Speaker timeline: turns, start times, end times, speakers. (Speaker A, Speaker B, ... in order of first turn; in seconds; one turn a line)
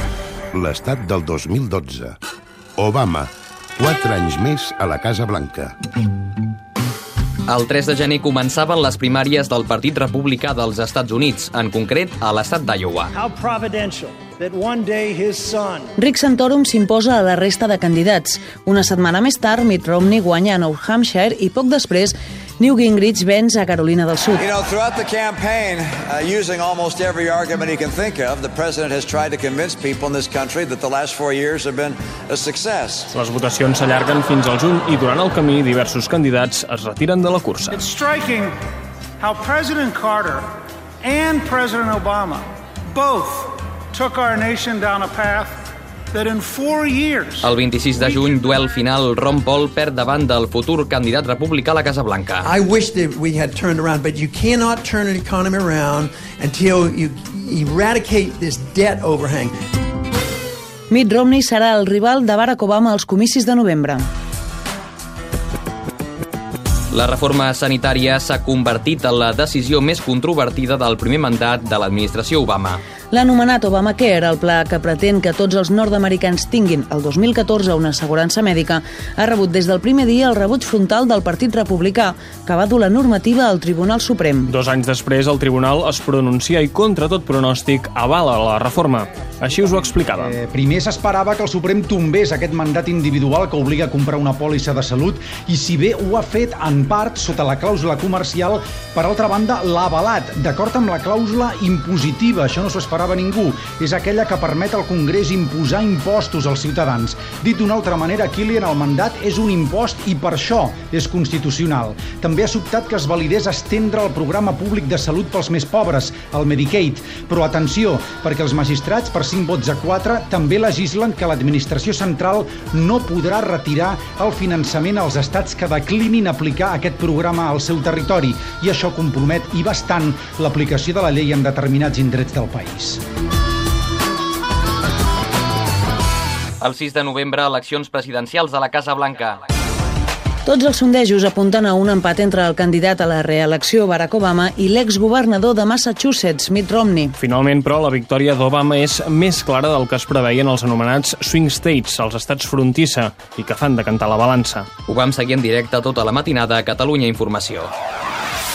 Speaker A: 0.6-2.1
Speaker A: 2.8-5.7
Speaker B: 7.5-13.1
Speaker C: 13.2-15.9
Speaker D: 16.0-24.4
Speaker E: 24.4-33.1
Speaker F: 33.1-37.8
Speaker C: 37.7-38.5
Speaker C: 39.2-40.5
Speaker C: 41.0-47.5
Speaker B: 47.4-52.4
Speaker G: 52.4-59.5
Speaker D: 60.9-64.1
Speaker B: 66.9-72.8
Speaker D: 73.1-84.5
Speaker F: 84.5-90.3
Speaker H: 90.2-133.0
Speaker B: 136.6-139.4
Speaker D: 140.4-147.2
Speaker F: 147.2-154.7
Speaker B: 154.9-157.7